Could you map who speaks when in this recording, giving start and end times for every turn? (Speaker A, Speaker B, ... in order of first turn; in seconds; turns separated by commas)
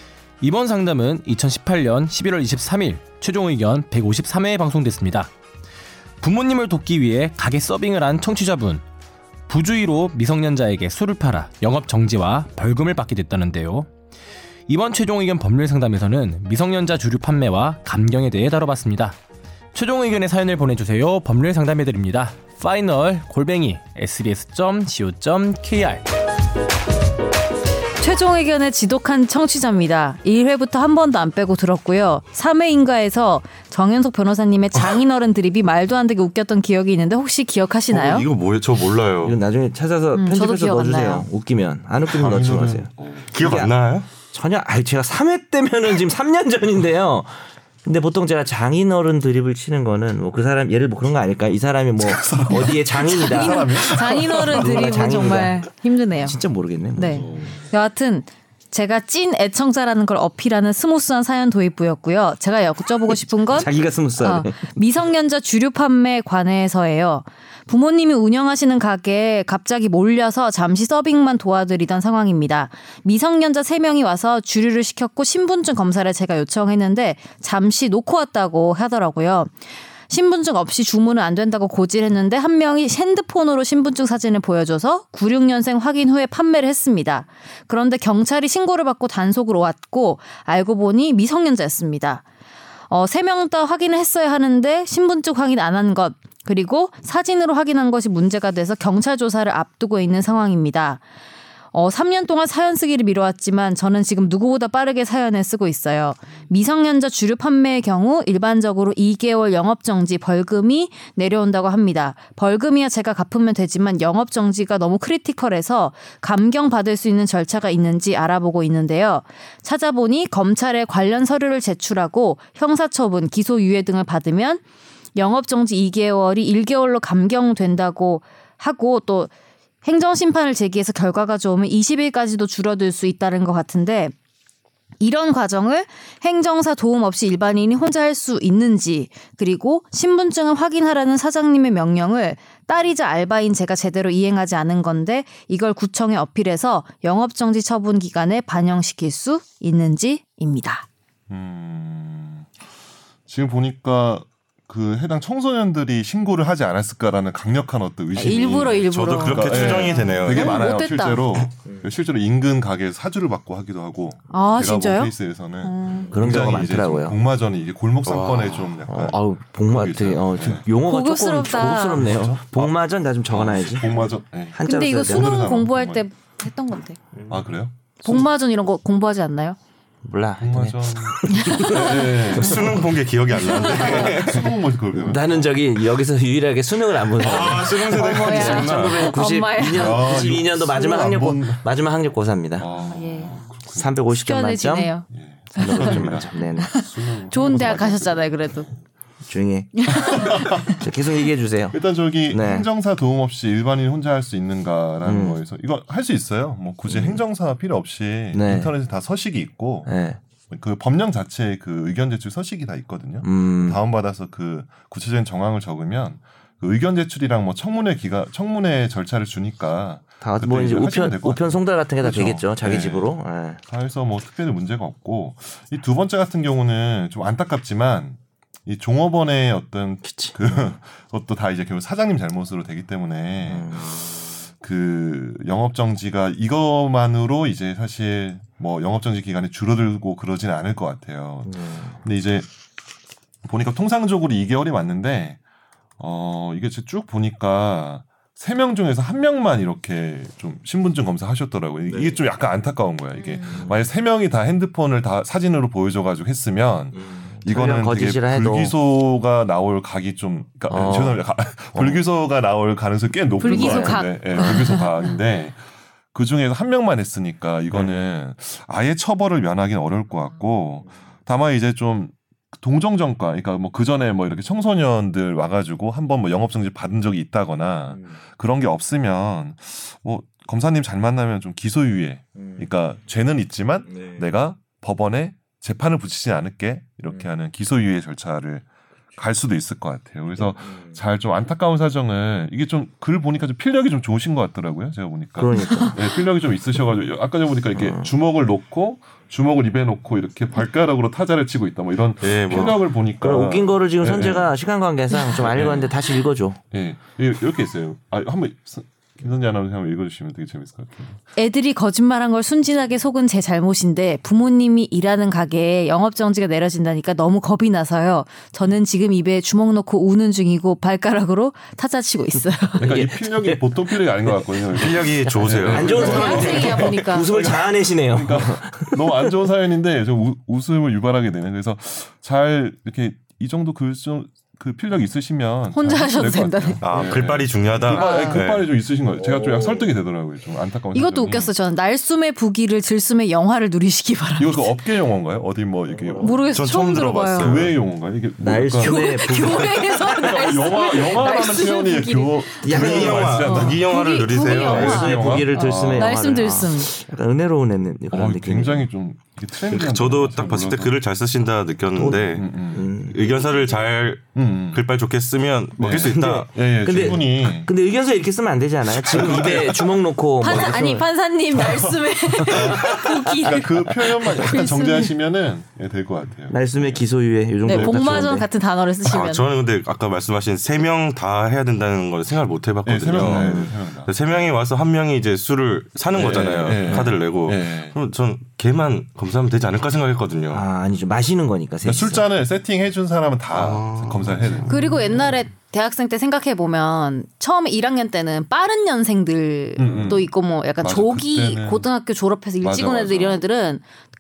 Speaker A: 0.4-5.3, Speaker A: 6.2-8.8, Speaker A: 9.5-13.9, Speaker A: 14.7-19.2, Speaker A: 19.7-26.0, Speaker B: 28.0-38.3, Speaker C: 37.9-39.4, Speaker D: 39.2-43.7, Speaker B: 40.1-41.3, Speaker E: 42.1-43.7, Speaker C: 43.3-44.1, Speaker D: 44.3-55.6, Speaker E: 52.0-55.0, Speaker B: 52.7-56.4, Speaker D: 56.2-57.5, Speaker B: 56.9-79.5, Speaker D: 63.5-64.7, Speaker B: 80.1-92.2, Speaker B: 92.9-101.0, Speaker B: 101.7-124.6, Speaker B: 125.1-129.3, Speaker B: 129.8-134.1, Speaker B: 135.0-150.9, Speaker E: 151.3-152.5, Speaker E: 153.3-170.7, Speaker B: 158.1-161.3, Speaker C: 158.9-160.6, Speaker B: 164.3-166.1, Speaker D: 166.0-167.2, Speaker C: 168.0-168.8, Speaker D: 168.9-173.9, Speaker B: 170.8-172.1, Speaker E: 171.7-176.1, Speaker D: 174.5-175.4, Speaker B: 174.6-177.0, Speaker E: 177.3-178.2, Speaker B: 178.0-179.6, Speaker D: 180.0-182.9, Speaker E: 180.4-185.6, Speaker C: 182.3-184.5, Speaker D: 183.7-184.2, Speaker D: 184.9-192.7, Speaker C: 187.2-189.2, Speaker B: 187.8-190.3, Speaker E: 189.6-191.7, Speaker E: 192.6-193.9, Speaker B: 192.9-193.4, Speaker D: 193.7-194.9, Speaker B: 194.1-198.7, Speaker E: 195.1-198.8, Speaker D: 195.6-196.7, Speaker D: 199.3-202.7, Speaker B: 199.8-200.8, Speaker E: 200.1-200.8, Speaker E: 201.7-209.9, Speaker D: 205.0-205.4, Speaker D: 206.9-207.2, Speaker D: 208.3-208.7, Speaker D: 209.9-210.2, Speaker E: 210.5-242.5, Speaker D: 213.2-213.8, Speaker D: 220.2-223.6, Speaker D: 230.0-230.4, Speaker D: 233.5-234.2, Speaker D: 241.4-242.0, Speaker E: 243.4-245.4, Speaker E: 246.0-304.5, Speaker D: 253.5-253.8, Speaker D: 257.0-258.8, Speaker D: 260.7-262.0, Speaker B: 263.4-265.2, Speaker D: 267.8-268.1, Speaker D: 277.9-278.2, Speaker D: 283.9-284.2, Speaker D: 290.4-291.0, Speaker D: 295.4-296.0, Speaker D: 297.8-298.1, Speaker C: 302.2-302.8, Speaker D: 302.5-306.6, Speaker E: 305.2-306.0, Speaker E: 306.7-311.2, Speaker B: 311.4-322.9, Speaker D: 322.8-329.3, Speaker E: 322.8-341.5, Speaker C: 324.8-326.9, Speaker B: 325.8-327.4, Speaker B: 335.7-336.8, Speaker C: 336.8-338.7, Speaker B: 337.9-338.5, Speaker D: 339.2-339.9, Speaker B: 340.9-344.8, Speaker E: 344.4-346.6, Speaker B: 346.2-347.6, Speaker C: 346.5-347.8, Speaker E: 347.4-355.9, Speaker D: 348.4-350.4, Speaker B: 348.8-356.9, Speaker D: 352.6-353.5, Speaker C: 352.6-355.6, Speaker D: 354.6-358.9, Speaker E: 358.1-361.0, Speaker C: 359.6-366.5, Speaker D: 361.9-363.2, Speaker E: 362.3-363.0, Speaker E: 364.4-364.8, Speaker E: 365.8-367.7, Speaker D: 365.8-371.1, Speaker C: 368.9-369.9, Speaker E: 369.1-369.7, Speaker B: 370.4-375.1, Speaker E: 372.4-377.1, Speaker D: 372.5-374.6, Speaker D: 376.5-378.5, Speaker E: 377.6-378.4, Speaker B: 377.6-379.5, Speaker C: 379.1-390.6, Speaker E: 382.8-384.1, Speaker D: 383.1-383.8, Speaker E: 386.1-388.0, Speaker D: 386.9-387.1, Speaker D: 390.5-392.3, Speaker E: 391.8-395.3, Speaker C: 393.5-394.7, Speaker B: 394.7-403.8, Speaker E: 399.8-401.9, Speaker E: 402.6-403.4